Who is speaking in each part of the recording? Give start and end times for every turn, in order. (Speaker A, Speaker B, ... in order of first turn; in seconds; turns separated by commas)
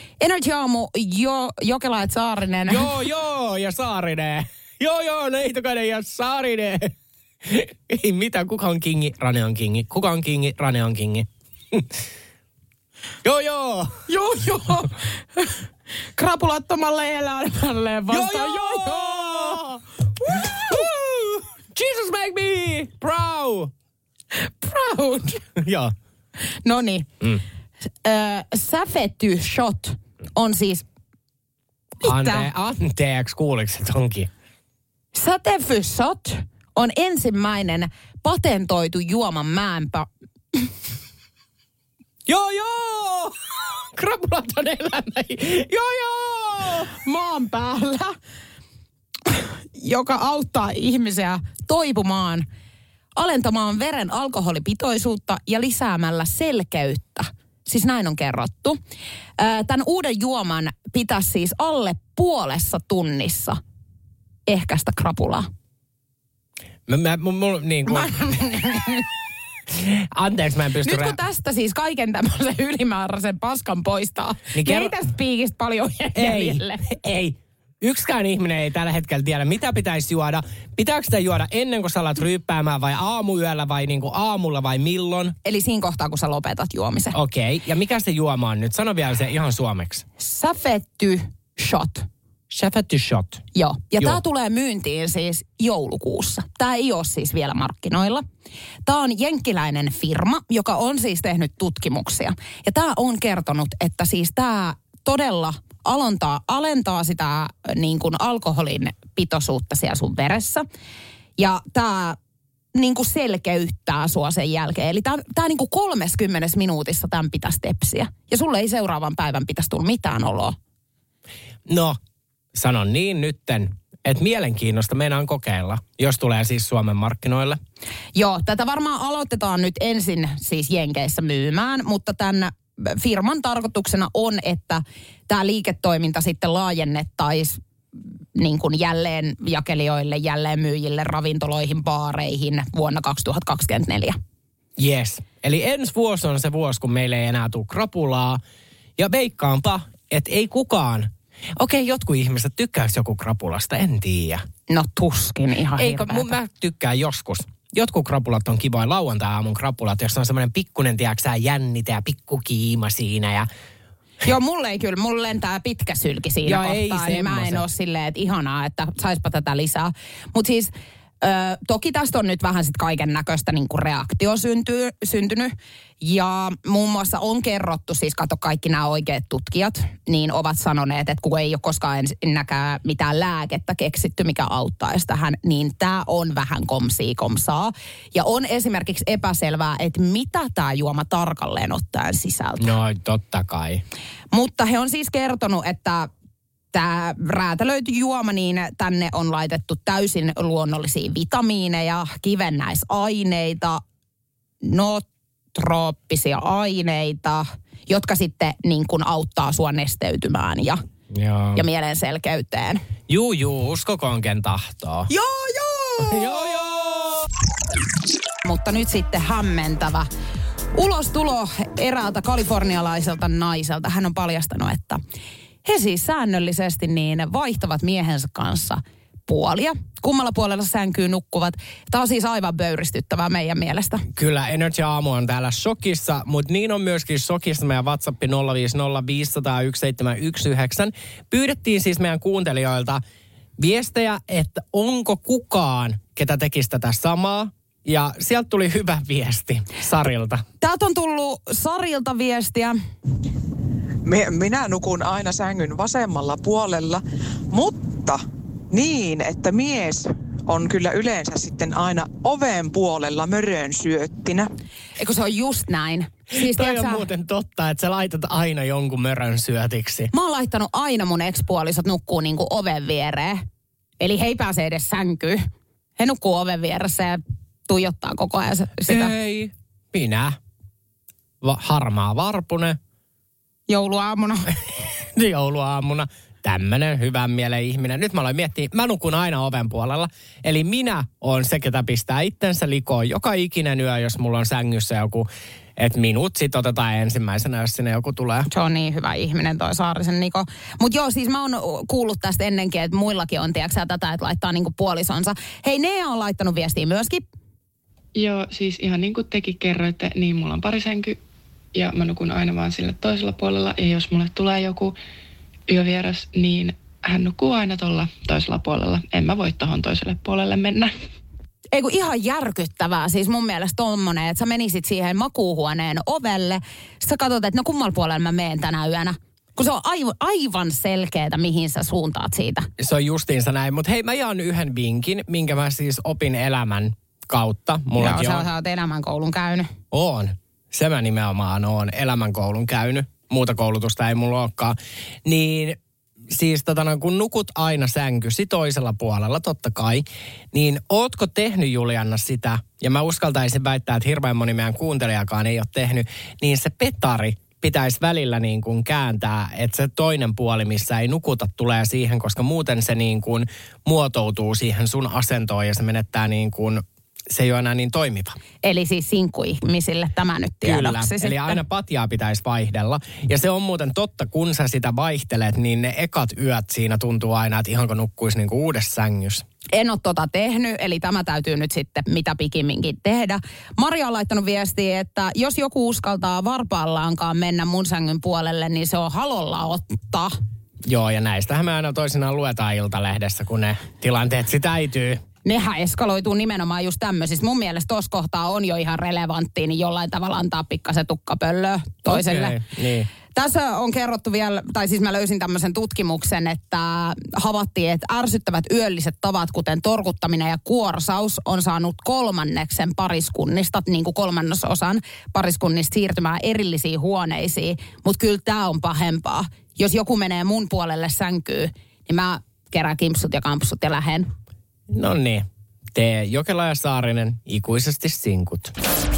Speaker A: 0.2-2.9, Speaker B: 2.7-11.9, Speaker B: 13.2-13.9, Speaker A: 14.1-15.5, Speaker A: 16.2-19.6, Speaker B: 18.1-19.8, Speaker A: 20.2-20.8, Speaker B: 20.3-23.7, Speaker A: 24.3-25.4, Speaker B: 25.6-25.9, Speaker A: 26.6-27.1, Speaker A: 28.0-30.8, Speaker B: 32.0-34.3, Speaker A: 32.0-32.5, Speaker A: 35.1-40.7, Speaker B: 42.3-46.9, Speaker A: 47.0-48.1, Speaker A: 49.3-52.5, Speaker A: 53.1-58.8, Speaker A: 59.4-63.6, Speaker A: 64.5-65.5, Speaker B: 66.9-68.5, Speaker A: 67.9-69.0, Speaker B: 69.8-71.2, Speaker A: 70.8-76.8, Speaker B: 74.5-74.9, Speaker B: 76.2-85.3, Speaker A: 85.4-87.1, Speaker B: 87.1-90.0, Speaker A: 90.2-92.0, Speaker B: 92.5-93.4, Speaker A: 93.5-98.2, Speaker A: 98.8-110.6, Speaker A: 111.4-112.2, Speaker A: 112.7-120.5, Speaker B: 121.7-122.0, Speaker B: 122.5-127.6, Speaker A: 128.2-137.6, Speaker A: 138.3-144.2, Speaker B: 144.8-148.4, Speaker B: 149.0-154.4, Speaker A: 154.7-156.3, Speaker B: 155.8-163.5, Speaker A: 164.2-192.7, Speaker B: 166.4-167.6, Speaker B: 192.6-193.8, Speaker A: 194.3-196.1, Speaker A: 196.7-203.8, Speaker A: 204.6-210.8, Speaker B: 211.1-211.6, Speaker A: 211.6-212.8, Speaker B: 213.1-215.1, Speaker A: 215.1-216.2, Speaker B: 216.0-217.2, Speaker A: 218.4-220.1, Speaker A: 220.7-225.0, Speaker A: 225.6-234.0, Speaker B: 234.2-243.0, Speaker B: 243.6-250.4, Speaker A: 250.6-252.8, Speaker C: 254.1-257.0, Speaker C: 257.5-258.2, Speaker C: 258.7-264.5, Speaker A: 265.0-267.1, Speaker B: 266.3-270.1, Speaker A: 270.1-273.4, Speaker A: 274.0-275.4, Speaker A: 276.0-279.1, Speaker B: 278.8-280.4, Speaker B: 281.4-282.8, Speaker A: 283.7-284.5, Speaker B: 284.7-298.5, Speaker A: 298.5-307.2, Speaker D: 308.1-311.2, Speaker D: 311.7-314.9, Speaker D: 315.7-320.9, Speaker A: 321.7-332.7, Speaker B: 332.8-338.4, Speaker A: 338.0-339.7, Speaker B: 339.9-345.8, Speaker B: 346.3-368.4, Speaker A: 368.6-371.6, Speaker B: 370.6-379.4, Speaker A: 379.7-390.3, Speaker B: 390.8-395.2, Speaker A: 395.4-402.6, Speaker B: 402.1-403.1, Speaker A: 403.3-424.3, Speaker B: 424.9-428.7